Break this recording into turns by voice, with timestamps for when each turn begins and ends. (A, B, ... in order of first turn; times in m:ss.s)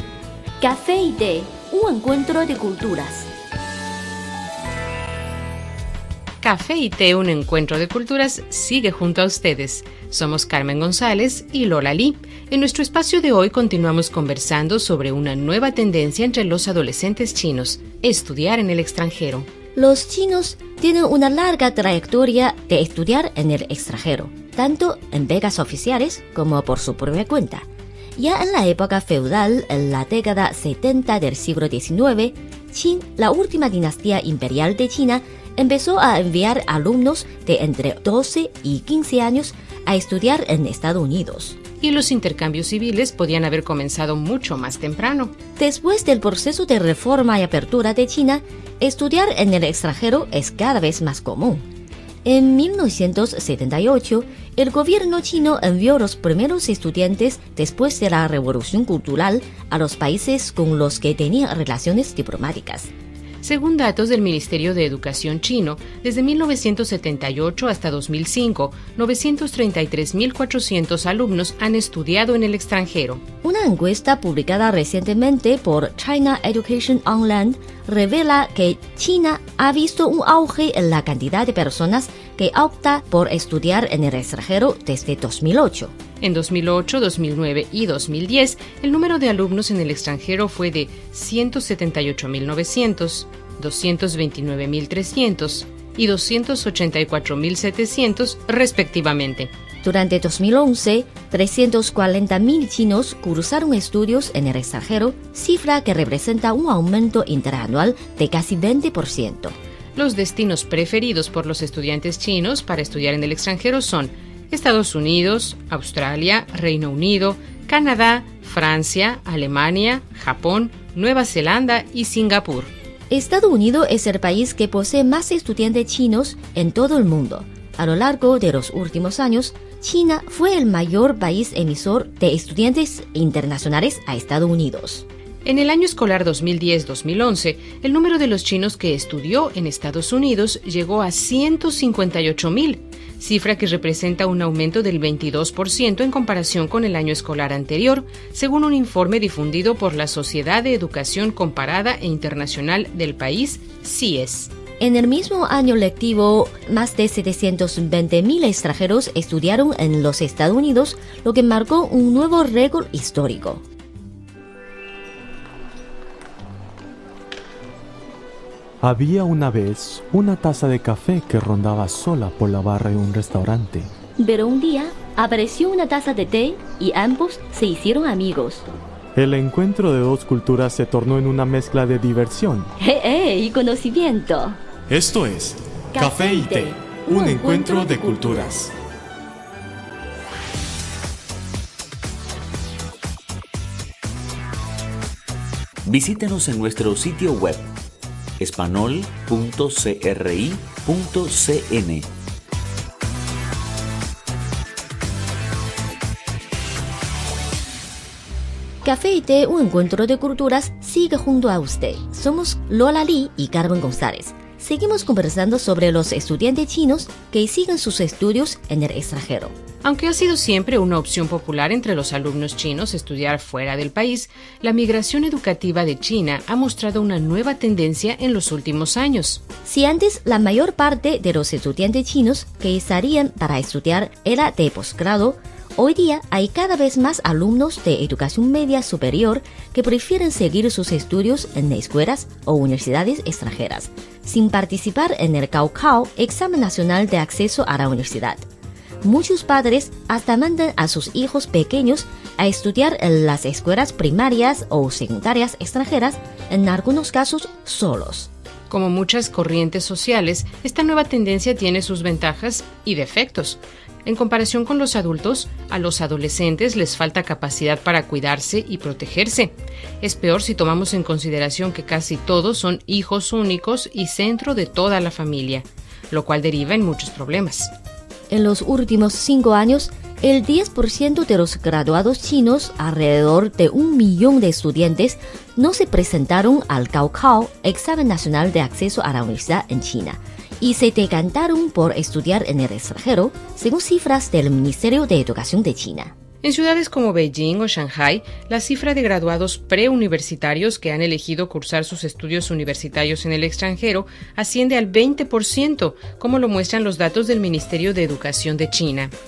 0:00.6-0:03.3 A
0:06.4-0:19.5 B
0:19.8-0:41.6 A
0:41.8-0:45.3 B
0:45.6-0:51.6 A
0:52.2-1:02.9 A
1:03.4-1:13.2 B
1:13.4-1:25.9 A
1:26.2-1:39.5 B
1:39.8-1:49.6 A
1:50.0-2:02.7 B
2:03.1-2:15.1 A
2:15.4-2:34.5 B
2:34.8-2:43.6 A
2:48.8-2:53.9 C
2:54.2-2:58.7 A
2:59.2-3:02.7 C
3:02.8-3:04.6 A
3:04.9-3:08.7 C
3:05.9-3:08.4 A
3:15.8-3:17.7 D
3:18.4-3:22.1 D
3:28.8-3:39.6 A
3:39.8-3:49.4 B
3:49.6-4:08.4 A
4:09.0-4:18.3 A
4:18.7-4:37.7 B
4:38.3-4:56.1 A
4:56.4-5:09.1 B